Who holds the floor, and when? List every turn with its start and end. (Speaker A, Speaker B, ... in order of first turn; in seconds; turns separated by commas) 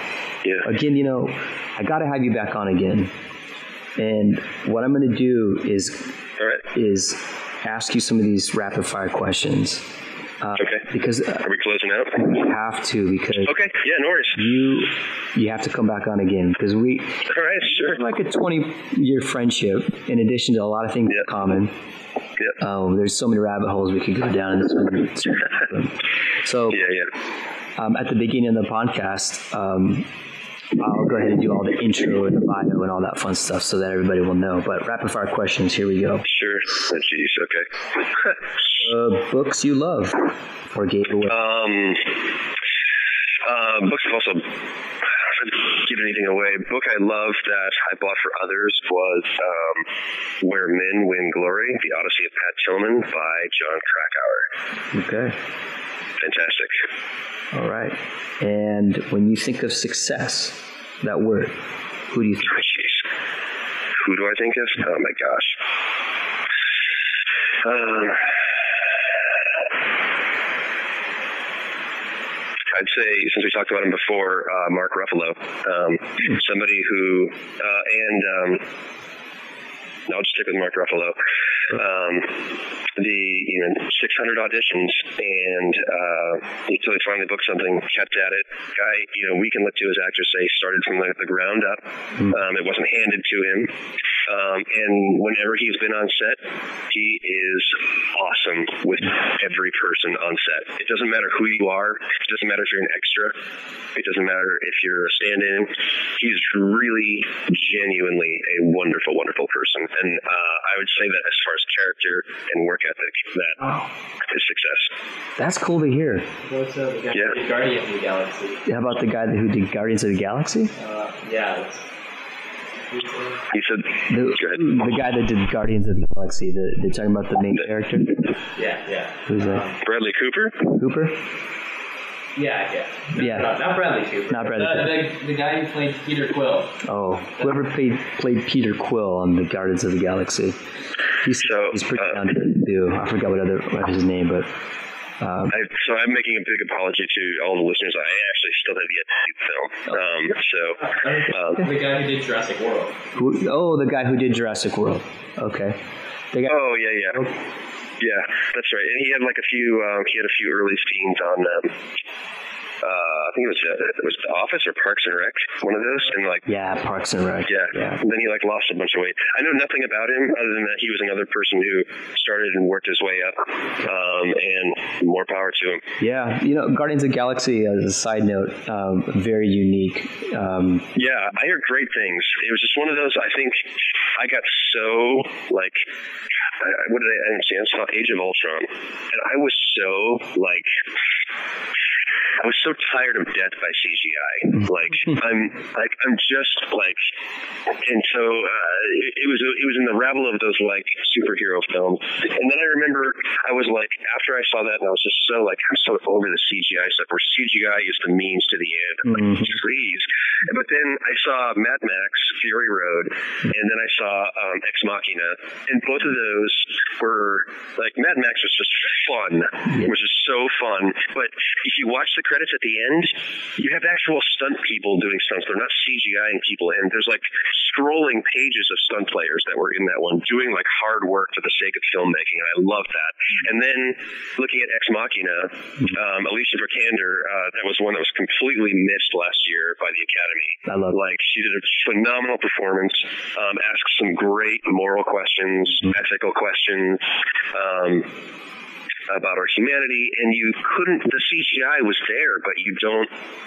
Speaker A: 0.6-3.1, Speaker A: 4.0-6.2, Speaker B: 6.4-6.6, Speaker A: 6.7-11.4, Speaker B: 10.6-10.8, Speaker B: 11.4-12.3, Speaker A: 12.2-13.6, Speaker B: 13.5-14.4, Speaker A: 14.3-21.7, Speaker B: 17.2-18.0, Speaker A: 22.6-26.8, Speaker B: 26.7-27.1, Speaker A: 27.8-30.1, Speaker A: 30.8-36.2, Speaker B: 36.2-38.4, Speaker A: 38.8-41.3, Speaker B: 41.3-42.2, Speaker B: 43.4-44.6, Speaker B: 45.3-49.9, Speaker B: 50.4-54.5, Speaker A: 54.9-55.4, Speaker B: 56.2-56.8, Speaker A: 57.5-62.6, Speaker B: 62.5-63.0, Speaker B: 64.0-65.6, Speaker B: 67.6-68.4, Speaker B: 72.7-78.7, Speaker B: 80.1-93.7, Speaker B: 94.2-103.4, Speaker B: 103.9-113.6, Speaker B: 114.3-114.9, Speaker A: 115.4-116.3, Speaker C: 116.4-118.6, Speaker A: 118.7-120.7, Speaker C: 120.8-121.9, Speaker C: 122.9-123.4, Speaker B: 123.5-124.6, Speaker A: 124.1-128.3, Speaker C: 128.5-129.8, Speaker A: 129.3-129.7, Speaker B: 129.8-130.7, Speaker A: 130.7-131.2, Speaker C: 132.3-136.8, Speaker A: 133.2-133.6, Speaker A: 134.3-135.1, Speaker A: 136.8-140.6, Speaker A: 141.2-144.5, Speaker B: 141.4-142.3, Speaker A: 145.2-145.5, Speaker B: 145.5-151.7, Speaker C: 150.8-153.0, Speaker A: 153.2-155.8, Speaker A: 156.3-156.6, Speaker B: 156.4-157.3, Speaker B: 158.0-161.8, Speaker B: 162.8-166.4, Speaker A: 166.4-168.0, Speaker B: 167.5-175.8, Speaker A: 176.0-180.9, Speaker B: 180.9-185.9, Speaker B: 186.6-190.8, Speaker B: 192.4-197.1, Speaker B: 197.7-248.1, Speaker A: 240.7-240.9, Speaker B: 249.1-253.1